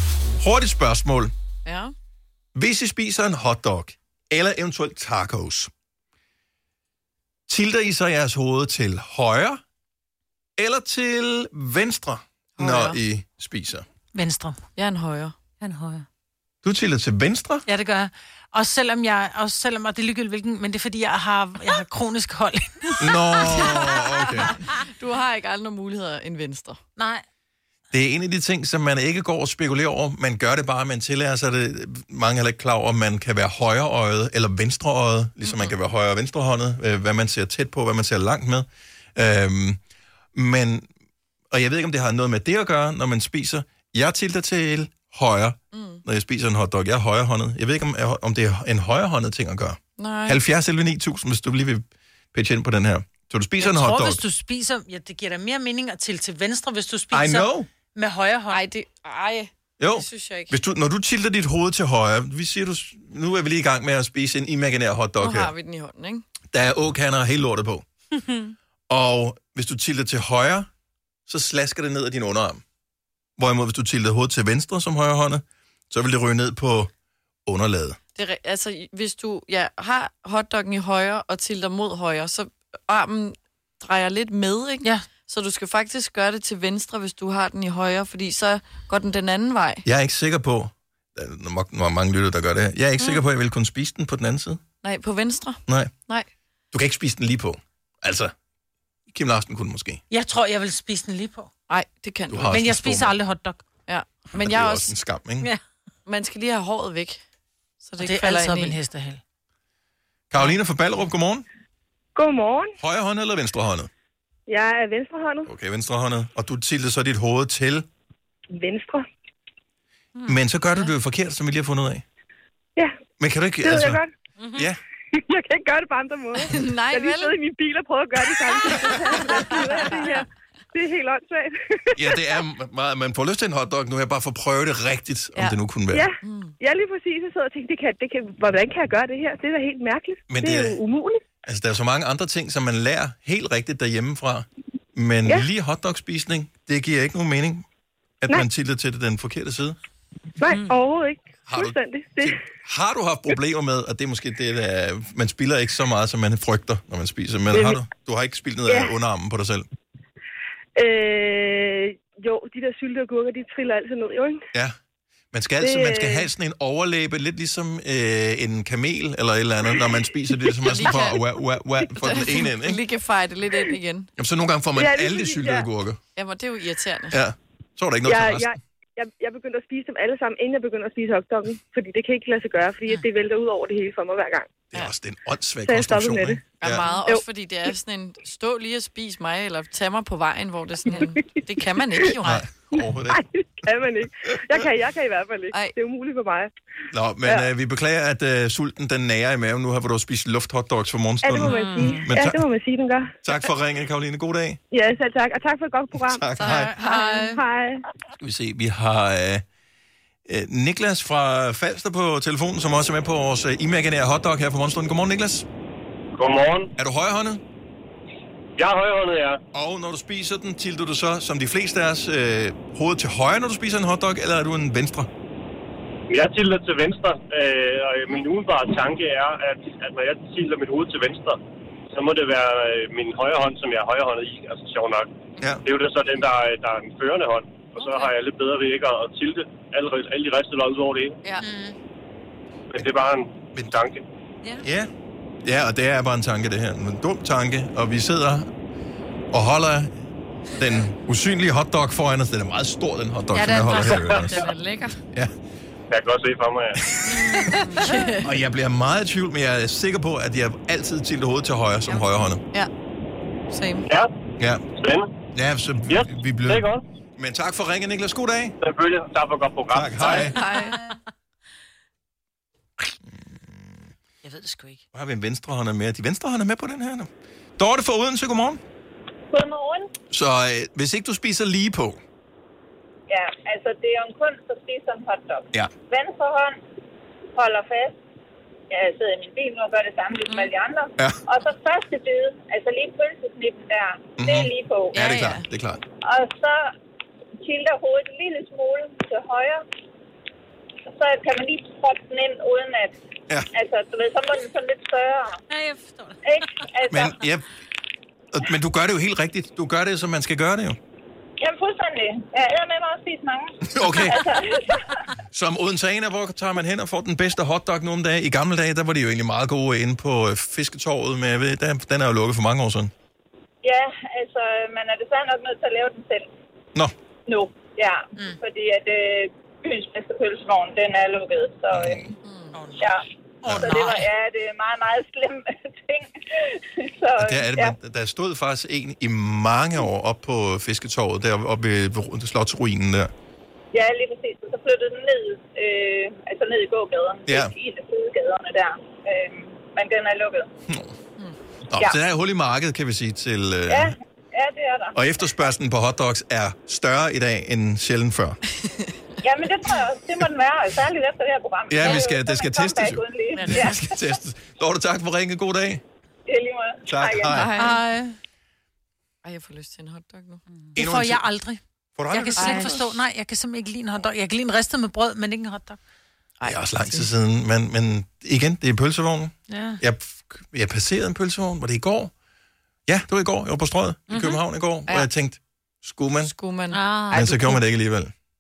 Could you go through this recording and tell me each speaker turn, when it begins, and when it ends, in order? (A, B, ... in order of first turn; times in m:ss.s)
0:00.4-0:01.3 A
0:01.6-0:01.9 B
0:02.6-0:05.7 A
0:07.5-0:09.6 A
0:10.6-0:13.9 A
0:12.6-0:13.0 B
0:14.1-0:14.6 C
0:14.8-0:15.4 B
0:15.6-0:16.1 C
0:16.6-0:17.6 A
0:17.7-0:23.4 C
0:23.0-0:24.6 A
0:23.4-0:26.8 B
0:27.0-0:27.2 C
0:27.9-0:39.8 A
0:40.4-0:40.9 A
0:41.5-0:54.2 A
0:45.7-0:46.0 B
0:50.0-0:50.4 B
0:53.6-0:58.6 C
0:57.1-0:57.7 A
0:58.5-1:00.6 B
0:59.8-1:05.5 A
1:05.2-1:06.3 B
1:06.5-1:07.8 A
1:08.9-1:10.7 A
1:11.3-1:12.6 A
1:13.4-1:16.9 A
1:17.5-1:18.0 A
1:18.2-1:29.8 B
1:29.8-1:34.6 A
1:34.8-1:36.3 B
1:36.7-1:38.3 A
1:39.1-1:40.0 A
1:40.1-1:41.5 C
1:41.7-1:42.5 B
1:42.3-1:43.1 A
1:42.5-1:43.6 C
1:43.9-1:44.9 B
1:44.4-1:45.5 A
1:46.1-1:47.2 B
1:47.8-1:48.8 B
1:48.0-1:49.2 C
1:50.3-1:51.4 A
1:52.2-1:52.8 D
1:52.8-1:53.9 A
1:54.5-1:55.5 D
1:55.5-1:57.9 A
1:58.5-1:59.0 D
2:00.3-2:02.0 A
2:03.2-2:04.0 A
2:03.6-2:04.1 D
2:04.4-2:04.7 C
2:05.1-2:12.2 D
2:06.5-2:07.4 B
2:08.9-2:10.2 B
2:12.0-2:16.1 A
2:15.9-2:21.2 D
2:16.2-2:16.5 B
2:20.3-2:20.8 A
2:21.5-2:27.6 A
2:28.2-2:29.8 A
2:30.4-2:32.4 D
2:31.5-2:39.7 A
2:37.5-2:37.8 D
2:38.7-2:38.9 D
2:40.8-2:44.4 D
2:45.3-2:52.8 A
2:45.6-2:46.3 D
2:50.7-2:51.3 B
2:52.0-2:54.1 B
2:54.2-2:56.0 A
2:54.8-2:55.7 D
2:56.2-2:57.2 B
2:57.1-2:58.5 A
2:58.0-3:04.5 D
3:04.7-3:06.9 A
3:05.6-3:07.2 D
3:06.6-3:12.5 B
3:12.2-3:13.2 A
3:13.1-3:16.5 D
3:16.9-3:22.4 A
3:21.2-3:23.1 D
3:21.4-3:22.0 C
3:23.2-3:24.6 A
3:24.7-3:26.3 D
3:26.1-3:26.7 A
3:26.4-3:27.4 B
3:26.4-3:27.4 C
3:26.8-3:27.8 D
3:28.2-3:29.4 A
3:30.3-3:35.5 A
3:36.2-3:36.7 E
3:36.8-3:37.4 A
3:38.6-3:39.4 E
3:39.5-3:45.1 A
3:46.1-3:51.4 E
3:51.9-3:55.1 E
3:55.6-4:01.2 E
3:57.8-3:58.0 B
4:01.4-4:01.8 C
4:02.7-4:04.0 E
4:04.6-4:04.9 A
4:05.4-4:08.5 A
4:09.3-4:14.5 A
4:13.3-4:15.0 B
4:13.8-4:14.4 E
4:15.9-4:17.0 E
4:16.8-4:22.4 A
4:17.0-4:18.2 B
4:17.2-4:18.1 C
4:21.9-4:22.7 B
4:23.5-4:23.9 B
4:24.8-4:25.1 E
4:25.3-4:28.6 A
4:25.9-4:26.8 E
4:28.6-4:30.3 E
4:29.7-4:30.4 A
4:30.0-4:30.9 B
4:30.3-4:31.0 C
4:34.2-4:34.8 C
4:34.9-4:38.6 A
4:39.3-4:39.9 F
4:40.1-4:42.0 A
4:43.1-4:46.6 F
4:47.4-4:48.0 F
4:48.7-4:55.0 F
4:54.2-4:55.8 A
4:54.9-4:55.4 B
4:56.0-4:56.6 F
4:57.4-4:59.6 F
5:00.9-5:03.0 F
5:03.5-5:05.4 F
5:05.5-5:06.7 C
5:06.2-5:07.2 F
5:06.9-5:07.5 A
5:08.3-5:10.8 A
5:11.4-5:15.0 F
5:13.7-5:14.2 A
5:15.3-5:22.9 A
5:23.6-5:26.2 F
5:27.3-5:32.1 F
5:31.7-5:32.1 A
5:32.2-5:32.7 B
5:32.5-5:34.1 C
5:32.7-5:37.8 F
5:33.5-5:33.8 A
5:37.2-5:43.1 A
5:43.7-5:50.5 F
5:47.3-5:47.5 A
5:51.7-5:54.0 A
5:53.7-5:55.0 F
5:55.0-5:58.4 A
5:59.2-6:03.9 F
6:01.7-6:05.8 A
6:03.4-6:03.8 C
6:06.3-6:07.5 F
6:06.9-6:07.5 A
6:07.3-6:07.8 B
6:07.5-6:08.2 C
6:09.2-6:10.5 B
6:10.7-6:15.8 C
6:10.8-6:11.2 A
6:12.0-6:13.0 A
6:12.4-6:12.8 B
6:16.4-6:17.1 B
6:16.4-6:22.1 A
6:19.5-6:19.8 C
6:22.9-6:26.3 A
6:24.1-6:24.4 C
6:26.2-6:27.6 B
6:26.7-6:27.3 C
6:27.1-6:28.1 A